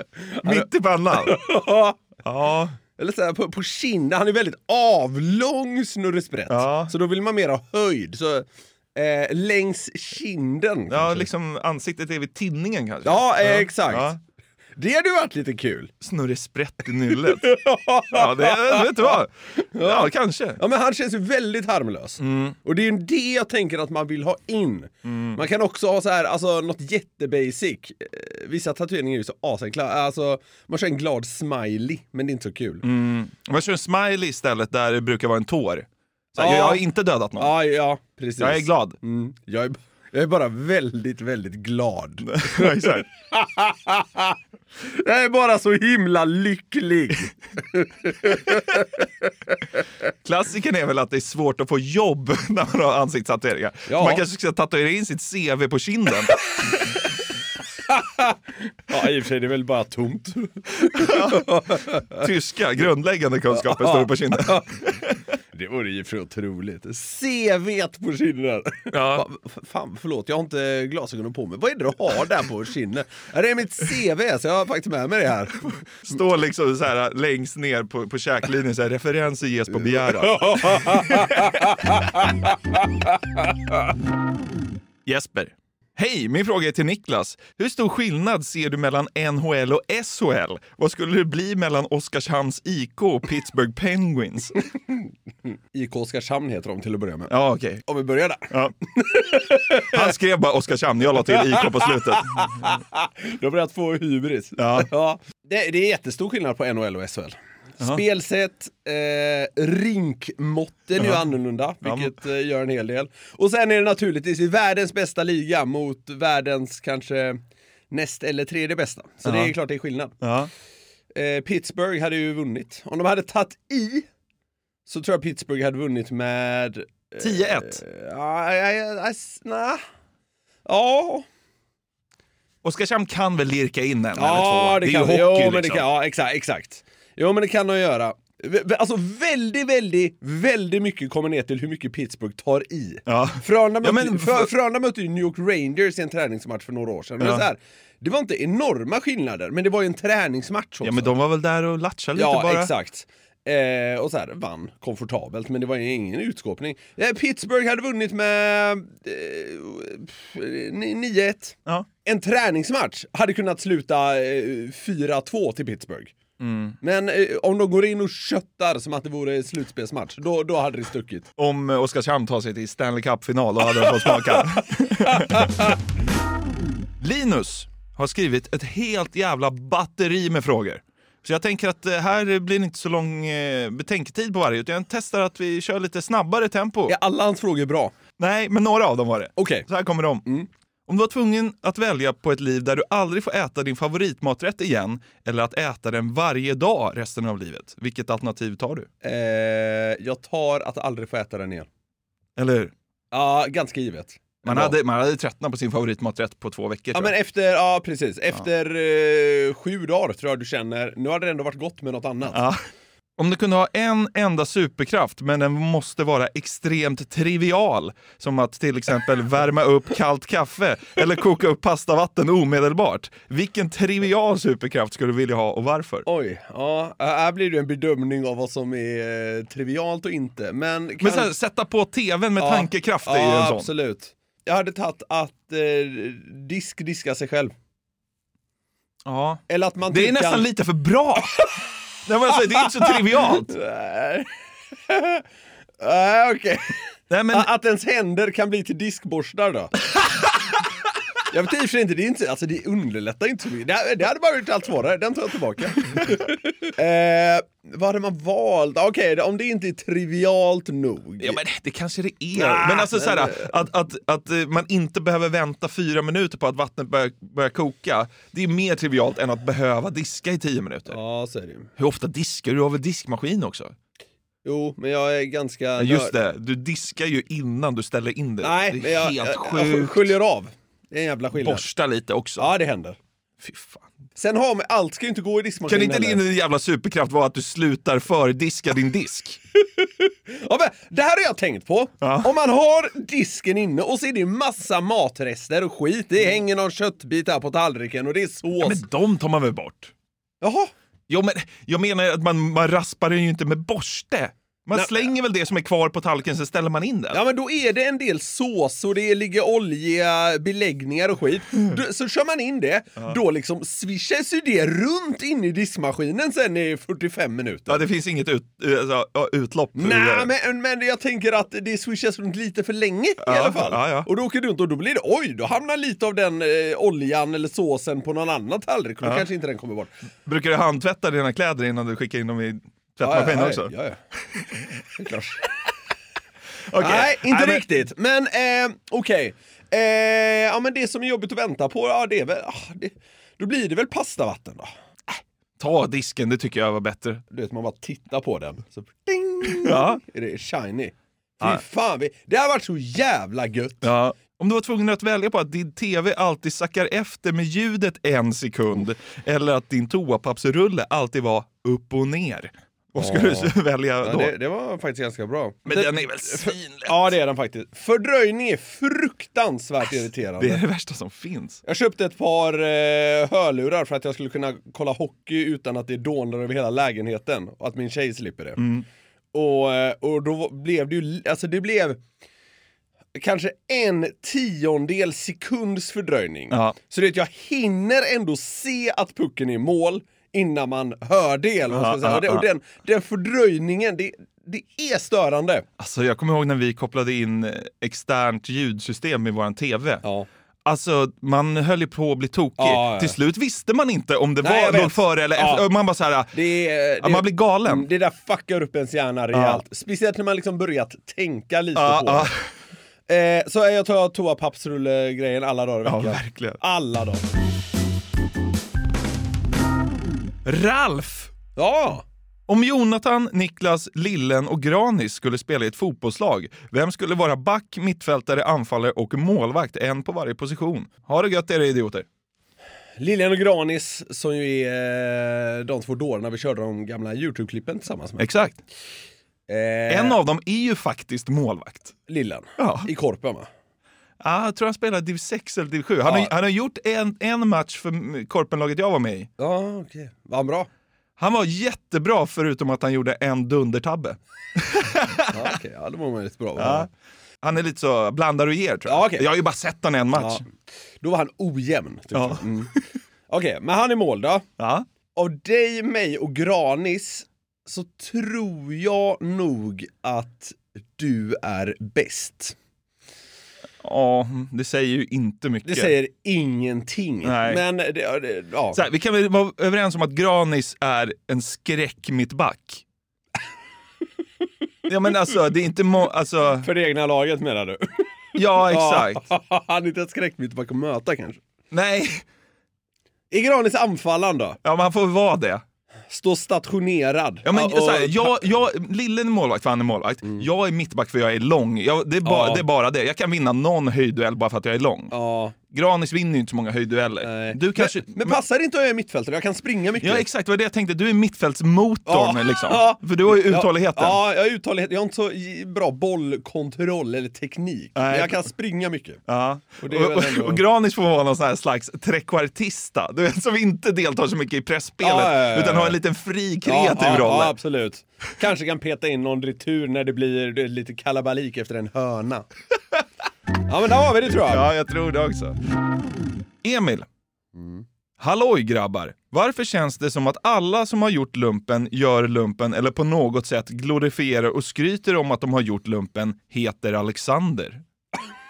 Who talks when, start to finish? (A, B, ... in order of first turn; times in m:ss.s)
0:00.3-0:02.0 A
0:00.4-0:01.4 B
0:02.2-0:02.8 B
0:03.0-0:11.3 A
0:06.5-0:06.9 B
0:10.9-0:14.2 B
0:13.0-0:14.1 A
0:14.8-0:15.9 A
0:16.0-0:17.5 B
0:17.4-0:19.2 A
0:18.1-0:20.6 B
0:19.7-0:32.8 A
0:22.2-0:22.6 B
0:25.0-0:25.4 B
0:32.8-0:37.5 B
0:36.4-0:36.8 A
0:37.4-0:49.1 A
0:38.4-0:39.0 B
0:42.2-0:43.1 B
0:50.2-0:56.4 B
0:53.9-0:54.2 A
0:57.9-1:02.2 A
1:00.9-1:01.4 B
1:02.2-1:05.2 B
1:03.5-1:04.8 A
1:05.5-1:15.7 A
1:08.9-1:09.2 B
1:16.0-1:21.2 B
1:20.0-1:23.9 A
1:25.1-1:34.6 B
1:35.7-1:37.3 A
1:37.3-1:37.8 B
1:37.9-1:40.0 A
1:39.9-1:42.6 B
1:41.1-1:57.4 A
1:44.6-1:44.9 B
1:51.0-1:51.2 B
1:51.8-1:52.1 B
1:57.9-2:00.2 A
1:59.2-1:59.5 B
2:00.2-2:00.5 B
2:01.1-2:04.1 A
2:04.9-2:09.8 A
2:07.2-2:07.8 B
2:10.7-2:11.2 A
2:12.6-2:15.8 B
2:14.2-2:31.1 A
2:23.1-2:24.5 B
2:27.2-2:27.4 B
2:30.8-2:32.7 B
2:32.2-2:46.1 A
2:46.4-2:46.8 B
2:46.8-2:51.3 A
2:51.4-2:55.6 B
2:53.8-2:54.4 A
2:55.1-2:55.7 A
2:57.0-3:06.9 B
3:06.9-3:07.9 A
3:08.2-3:10.3 B
3:09.4-3:09.6 A
3:10.9-3:18.9 B
3:19.0-3:21.7 A
3:22.4-3:22.7 B
3:23.1-3:24.8 A
3:24.4-3:27.1 B
3:26.9-3:32.4 A
3:32.3-3:32.6 B
3:33.2-3:46.0 B
3:46.1-3:51.3 A
3:51.0-3:53.7 B
3:52.4-3:57.5 A
3:59.1-4:01.3 B
3:59.5-4:00.4 A
4:02.1-4:03.5 B
4:02.6-4:04.3 A
4:04.9-4:05.2 A
4:05.8-4:06.8 A
4:07.1-4:07.5 B
4:07.3-4:09.7 A
4:11.3-4:21.4 A
4:21.2-4:31.0 B
4:22.4-4:23.5 A
4:30.9-4:31.7 A
4:31.8-4:33.8 B
4:34.4-4:36.1 A
4:35.8-4:40.1 B
4:38.4-4:41.6 A
4:41.4-4:42.5 B
4:42.4-4:43.0 A
4:43.4-4:43.9 B
4:44.2-4:46.2 A
4:45.7-4:49.4 B
4:49.8-4:58.8 A
4:52.0-4:52.3 B
4:58.6-4:59.9 B
5:00.4-5:00.7 A
5:01.1-5:07.2 B
5:04.7-5:05.1 A
5:07.1-5:17.8 A
5:17.7-5:20.3 B
5:19.8-5:29.9 A
5:23.2-5:24.1 B
5:30.3-5:33.7 B
5:33.0-5:34.0 A
5:34.9-5:35.5 A
5:36.7-5:37.6 B
5:36.8-5:44.7 A
5:45.6-5:47.2 B
5:47.3-5:53.9 A
5:49.5-5:50.0 B
5:53.8-6:04.3 B
6:03.0-6:10.6 A
6:05.7-6:07.1 B
6:10.4-6:11.6 B
6:11.6-6:18.6 A
6:18.6-6:18.8 B
6:19.3-6:22.0 A
6:23.2-6:35.7 A
6:26.5-6:26.8 B
6:31.7-6:32.4 B
6:35.8-6:40.0 B
6:40.6-6:46.4 B
6:42.6-6:43.2 A
6:44.4-6:45.6 A
6:46.3-6:52.3 A
6:47.0-6:47.9 B
6:49.3-6:49.6 B
6:51.8-6:52.4 B
6:53.1-6:57.2 A
6:55.8-6:56.6 B
7:00.4-7:01.3 B
7:01.6-7:02.0 A
7:02.5-7:12.1 B
7:13.0-7:18.3 A
7:18.2-7:18.6 B
7:19.5-7:20.2 A
7:19.9-7:22.0 B
7:22.1-7:23.5 A
7:22.6-7:22.9 B
7:24.2-7:29.3 B
7:26.0-7:26.3 A
7:29.4-7:30.7 A
7:31.2-7:35.5 B
7:35.3-7:36.9 A
7:36.6-7:36.9 B
7:37.4-7:40.4 B
7:38.9-7:39.3 A
7:40.2-7:40.4 A
7:41.0-7:42.7 A
7:42.1-7:42.8 B
7:43.3-7:44.5 A
7:44.6-7:44.8 B
7:45.2-7:52.6 A
7:53.8-7:55.9 B
7:55.7-7:58.8 A
7:57.2-7:57.6 B
7:58.7-8:02.8 B
8:04.9-8:06.7 B
8:06.6-8:08.1 A
8:08.3-8:09.2 B
8:08.6-8:11.4 A
8:11.7-8:12.2 B
8:13.3-8:14.6 A
8:14.6-8:15.6 B
8:16.1-8:18.4 A
8:17.4-8:25.1 B
8:22.2-8:22.6 A
8:25.1-8:25.6 A
8:25.7-8:28.4 B
8:27.2-8:30.2 A
8:30.0-8:34.2 B
8:32.1-8:39.2 A
8:38.0-8:38.4 B
8:39.3-8:47.6 B
8:39.8-8:40.6 A
8:45.0-8:46.0 A
8:46.6-8:52.5 A
8:53.7-8:54.7 A
8:54.4-8:55.6 B
8:56.6-8:57.1 B
8:57.6-8:57.8 A
8:58.2-9:07.8 B